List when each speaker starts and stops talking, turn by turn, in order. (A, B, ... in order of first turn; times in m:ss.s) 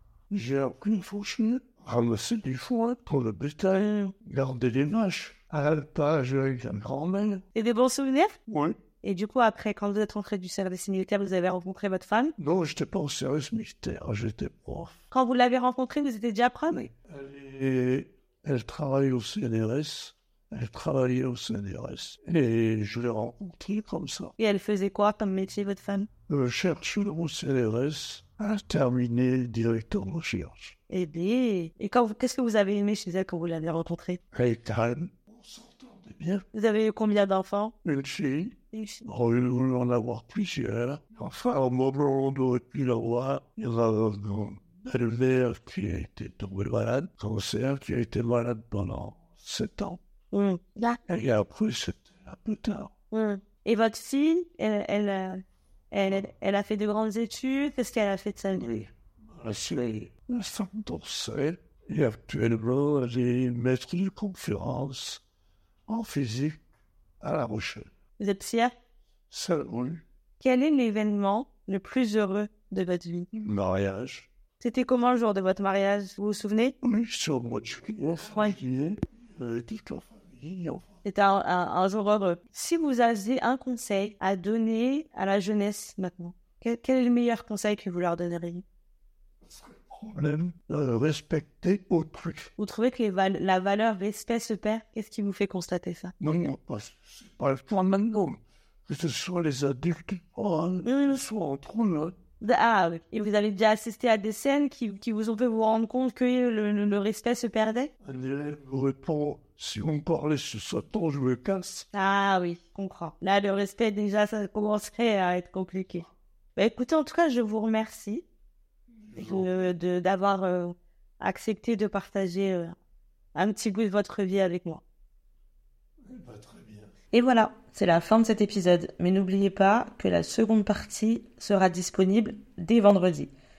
0:00.3-0:07.4 A
0:03.7-0:04.1 B
0:07.5-0:08.4 B
0:08.5-0:08.8 A
0:09.0-0:12.3 B
0:12.4-0:15.0 A
0:15.1-0:16.9 B
0:17.1-0:24.4 A
0:24.4-0:26.1 B
0:26.3-0:30.7 A
0:30.9-0:34.2 B
0:34.3-0:36.4 A
0:36.5-0:37.7 B
0:37.8-0:50.0 A
0:38.7-0:39.0 B
0:50.3-0:51.0 B
0:51.1-0:52.9 A
0:53.1-0:58.7 B
0:58.6-1:05.2 A
1:05.9-1:06.6 A
1:07.2-1:07.9 A
1:08.2-1:08.7 B
1:09.3-1:10.0 A
1:10.4-1:13.3 B
1:13.3-1:14.3 A
1:14.6-1:16.8 B
1:16.8-1:20.8 A
1:18.3-1:18.6 B
1:21.0-1:28.6 B
1:29.4-1:32.5 A
1:32.6-1:36.1 B
1:36.2-1:42.1 A
1:40.8-1:41.2 B
1:42.4-1:47.9 B
1:48.0-1:51.8 A
1:51.9-1:58.2 B
1:59.0-1:59.5 A
1:59.1-2:02.7 B
2:03.3-2:04.8 B
2:06.0-2:06.9 A
2:07.1-2:13.3 B